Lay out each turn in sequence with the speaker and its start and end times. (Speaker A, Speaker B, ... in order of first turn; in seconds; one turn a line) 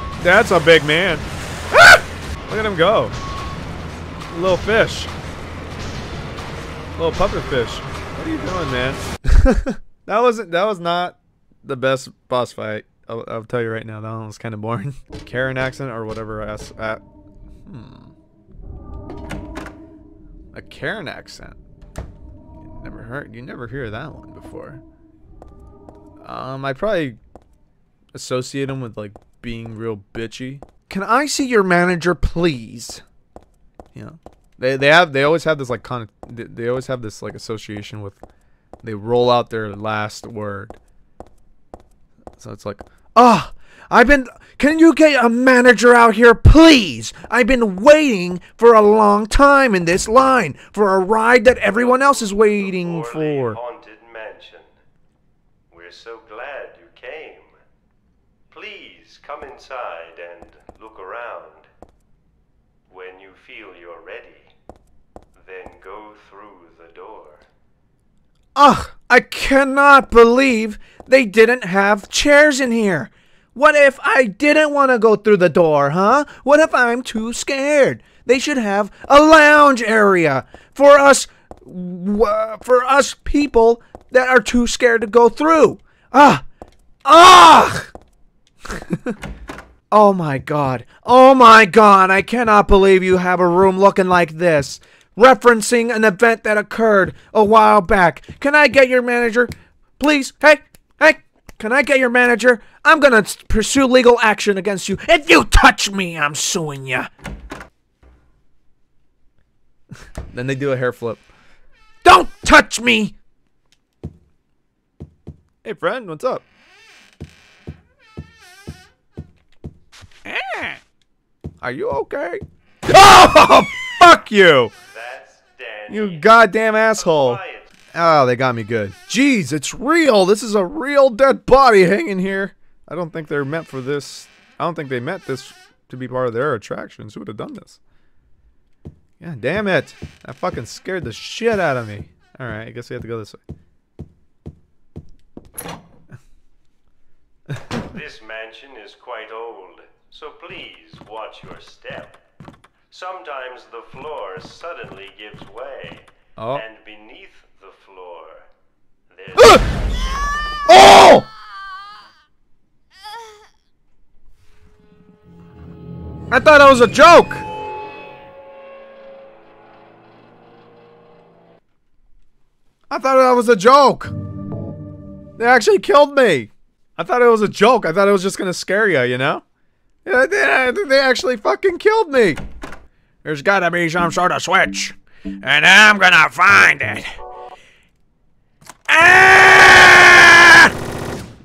Speaker A: 0.2-3.1
Speaker A: 4.3-5.1
Speaker A: 7.0-17.0
Speaker A: 17.6-18.1
Speaker A: 20.5-21.6
Speaker A: 22.6-24.8
Speaker A: 26.2-27.2
Speaker A: 28.1-33.0
Speaker A: 33.9-38.2
Speaker A: 38.8-40.8
Speaker A: 42.4-53.6
Speaker B: 51.7-54.7
Speaker B: 55.7-57.6
Speaker B: 58.5-61.7
Speaker B: 62.9-64.5
Speaker B: 65.4-67.4
Speaker A: 68.5-86.4
Speaker A: 87.0-87.9
Speaker A: 88.7-89.1
Speaker A: 89.9-107.1
Speaker A: 110.3-111.2
Speaker A: 112.0-113.1
Speaker A: 115.6-116.4
Speaker A: 120.2-120.8
Speaker A: 121.6-124.7
Speaker B: 124.9-126.3
Speaker A: 125.9-127.4
Speaker B: 127.0-127.7
Speaker A: 127.9-137.8
Speaker A: 139.2-143.4
Speaker B: 147.9-152.2
Speaker B: 152.9-158.5
Speaker A: 156.4-156.6
Speaker B: 159.1-159.8
Speaker A: 159.4-159.6
Speaker A: 160.7-161.3
Speaker A: 166.3-167.4
Speaker A: 172.9-174.1
Speaker A: 175.4-179.4
Speaker A: 180.0-182.4
Speaker A: 183.2-187.1
Speaker A: 188.9-190.7